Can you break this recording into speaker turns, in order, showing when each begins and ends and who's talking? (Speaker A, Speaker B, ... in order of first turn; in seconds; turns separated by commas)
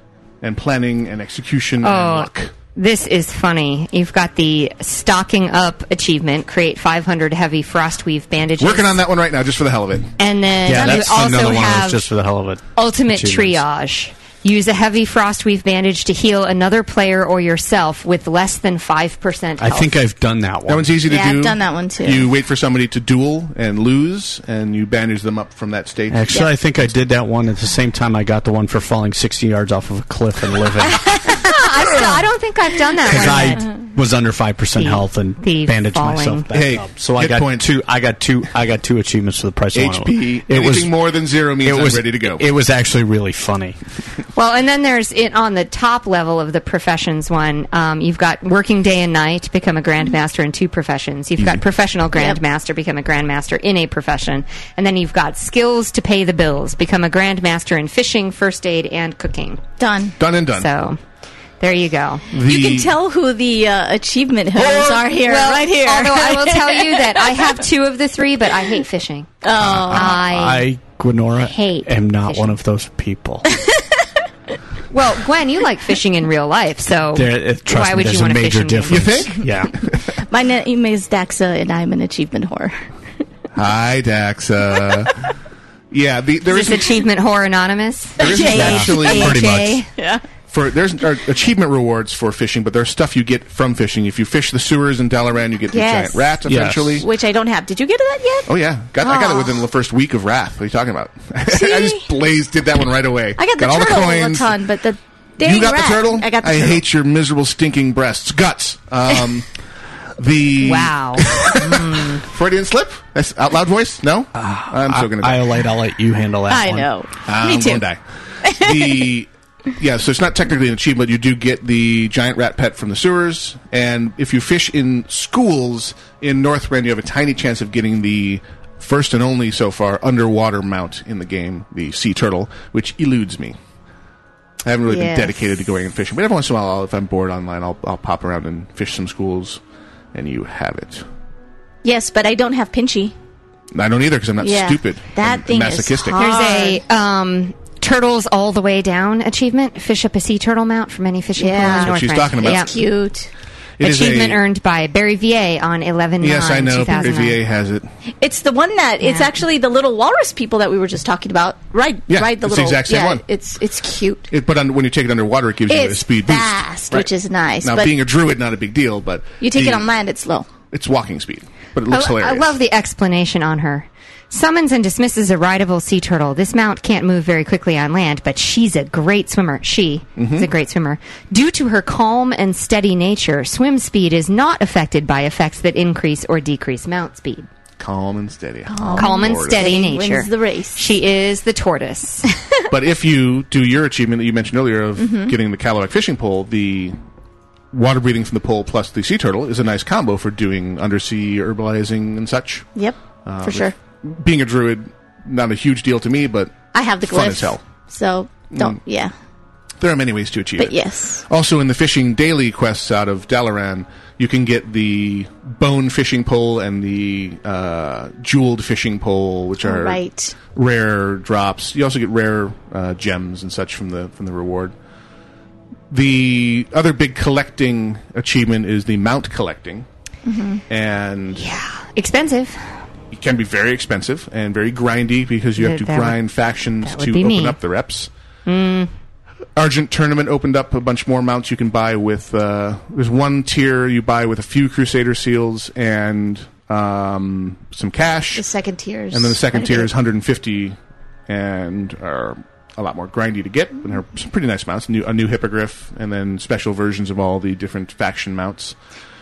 Speaker A: 0.4-2.5, Speaker B: 1.8-9.0, Speaker A: 8.6-10.1, Speaker B: 10.2-12.0, Speaker C: 10.7-13.6, Speaker B: 12.8-19.9, Speaker C: 19.6-20.9, Speaker A: 20.7-27.0, Speaker D: 21.0-22.3, Speaker C: 26.1-31.1, Speaker B: 31.3-33.7, Speaker C: 33.1-40.9, Speaker B: 34.8-36.5, Speaker A: 36.5-37.7, Speaker A: 39.7-42.4, Speaker C: 41.6-43.8, Speaker B: 44.4-59.6, Speaker D: 52.1-52.4, Speaker D: 59.8-60.2, Speaker A: 60.2-60.7, Speaker B: 60.5-61.0, Speaker B: 61.6-62.3, Speaker A: 62.3-62.9, Speaker D: 62.4-67.6, Speaker A: 64.6-64.9, Speaker B: 65.2-69.4, Speaker D: 69.4-70.2, Speaker C: 69.6-73.5, Speaker B: 69.9-70.7, Speaker B: 71.4-72.6, Speaker D: 73.5-73.8, Speaker B: 74.9-79.3, Speaker C: 77.1-79.8, Speaker A: 78.9-80.1, Speaker D: 80.3-82.8, Speaker A: 83.5-85.1, Speaker A: 85.9-87.0, Speaker B: 86.5-89.9, Speaker D: 88.2-89.4, Speaker A: 88.2-89.7, Speaker C: 88.5-89.8, Speaker D: 90.0-90.2, Speaker A: 90.5-97.1, Speaker D: 95.7-96.4, Speaker C: 96.5-97.0, Speaker D: 97.0-98.5, Speaker A: 98.5-104.6, Speaker D: 99.0-99.6, Speaker D: 101.5-102.1, Speaker D: 103.4-106.8, Speaker A: 105.4-109.5, Speaker A: 110.2-115.5, Speaker B: 110.6-112.2, Speaker C: 114.4-116.9, Speaker D: 116.5-117.8, Speaker A: 117.3-133.6, Speaker D: 118.5-119.1, Speaker A: 134.6-139.6, Speaker D: 134.9-135.4, Speaker A: 140.1-141.1, Speaker D: 141.8-143.2, Speaker A: 143.7-146.2, Speaker D: 144.4-146.8, Speaker B: 146.2-152.7, Speaker D: 151.4-153.3, Speaker A: 151.6-152.8, Speaker A: 153.8-154.4, Speaker B: 153.8-157.4, Speaker A: 156.2-157.9, Speaker D: 158.2-164.3, Speaker B: 159.0-159.3, Speaker A: 162.1-163.2, Speaker A: 164.3-167.1, Speaker D: 165.7-167.9, Speaker A: 167.6-169.9, Speaker D: 169.4-170.5, Speaker A: 170.7-172.6, Speaker B: 171.9-187.5, Speaker A: 180.2-180.5, Speaker A: 187.8-189.7, Speaker D: 188.7-190.8, Speaker B: 189.0-192.3, Speaker A: 192.7-197.0, Speaker D: 195.0-195.3, Speaker A: 197.7-202.7, Speaker D: 202.8-203.8, Speaker A: 203.2-207.6, Speaker D: 206.7-209.1, Speaker A: 208.5-208.8, Speaker A: 209.8-224.7, Speaker D: 210.6-211.2, Speaker D: 219.6-220.3, Speaker A: 225.9-229.9, Speaker D: 230.3-230.6, Speaker A: 230.7-231.5, Speaker B: 231.4-232.6, Speaker A: 233.1-238.1, Speaker B: 235.6-236.2, Speaker B: 236.8-237.6, Speaker B: 238.5-238.9, Speaker A: 239.6-248.5, Speaker D: 248.3-249.9, Speaker A: 249.1-258.8